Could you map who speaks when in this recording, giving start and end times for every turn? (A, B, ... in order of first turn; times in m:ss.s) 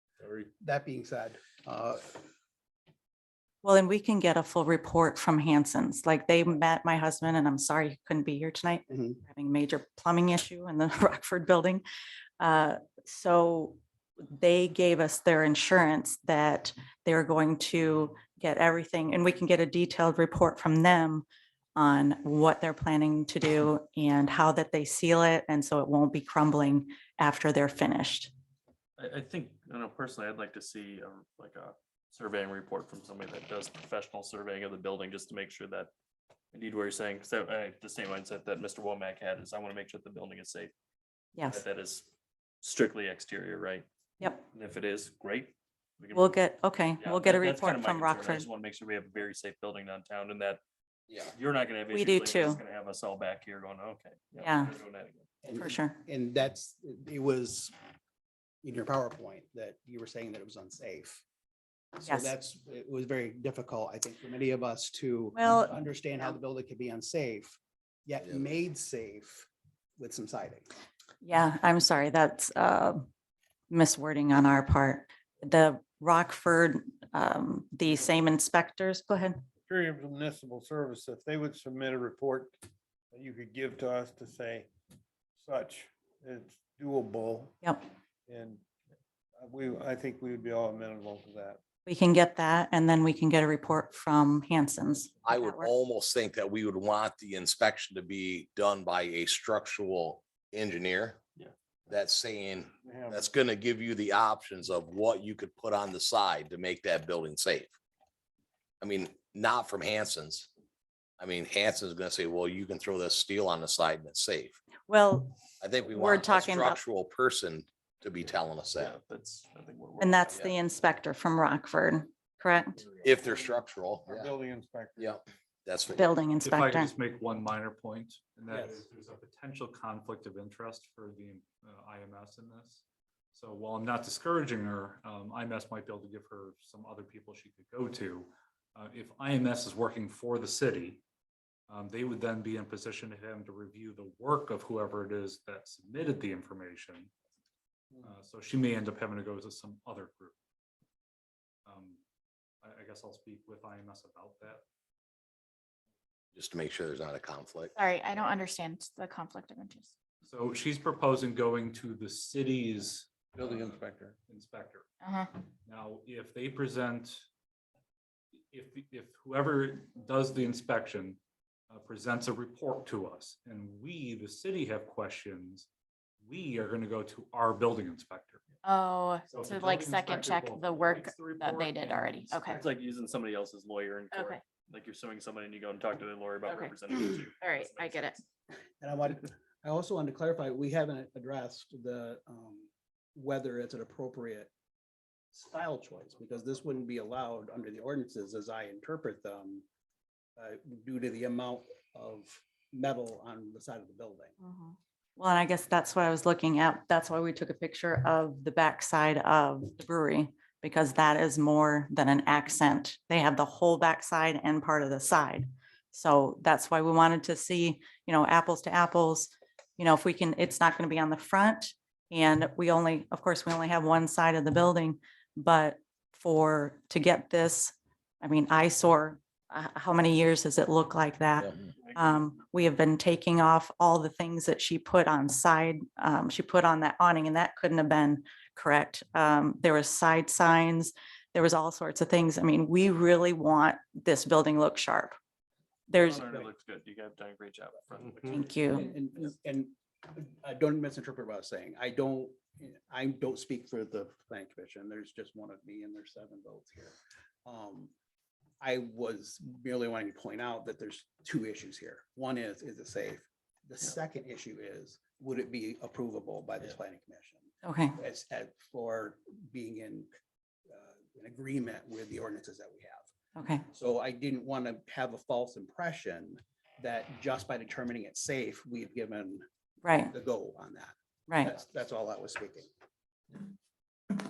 0:00.6-0:02.2 A
0:03.6-0:11.8 B
0:08.9-0:09.2 A
0:12.4-0:21.2 B
0:21.8-0:28.3 B
0:29.0-0:35.9 C
0:36.5-0:40.7 C
0:41.5-0:42.1 C
0:42.6-0:43.9 C
0:44.5-0:46.3 C
0:46.1-0:48.4 B
0:47.0-0:50.6 C
0:51.3-0:55.3 C
0:51.9-0:52.6 B
0:54.4-0:54.7 B
0:55.4-0:57.7 A
0:55.5-0:56.0 B
0:58.6-1:01.2 A
1:02.0-1:10.7 A
1:05.3-1:05.8 B
1:11.2-1:13.1 B
1:13.7-1:19.4 B
1:19.6-1:22.6 D
1:23.1-1:24.7 D
1:25.4-1:27.5 D
1:28.3-1:28.6 D
1:29.4-1:31.6 D
1:31.8-1:35.7 B
1:35.2-1:41.2 E
1:41.9-1:47.7 E
1:42.8-1:43.3 D
1:48.8-1:50.5 E
1:51.2-1:54.6 E
1:54.9-1:55.4 B
1:55.6-1:59.0 E
1:55.9-1:56.8 B
1:58.8-2:00.3 C
2:00.0-2:02.8 B
2:03.0-2:03.5 D
2:03.0-2:04.3 E
2:04.0-2:05.2 D
2:05.0-2:06.1 E
2:06.0-2:06.9 B
2:06.4-2:21.0 F
2:21.7-2:27.1 F
2:28.0-2:30.3 F
2:31.6-2:32.0 F
2:32.6-2:34.6 F
2:36.4-2:37.7 E
2:37.8-2:39.9 G
2:40.2-2:44.9 F
2:45.0-2:45.3 G
2:45.6-2:47.2 F
2:48.5-2:51.2 F
2:51.7-2:55.7 F
2:56.2-2:58.5 F
2:58.6-3:02.6 G
2:59.3-3:02.5 F
3:02.5-3:08.1 C
3:04.1-3:04.4 G
3:06.5-3:06.8 G
3:07.4-3:08.2 G
3:08.8-3:14.5 A
3:15.3-3:19.6 A
3:20.4-3:24.3 A
3:24.4-3:24.8 G
3:25.2-4:05.2 B
3:51.8-3:52.2 C
4:05.9-4:06.2 B
4:05.9-4:08.4 C
4:08.3-4:08.9 B
4:08.3-4:17.9 A
4:18.6-4:30.1 A
4:27.6-4:27.9 B
4:30.7-4:33.1 A
4:33.4-4:33.6 B
4:33.7-4:39.4 A
4:39.8-4:40.1 B
4:40.1-4:42.7 A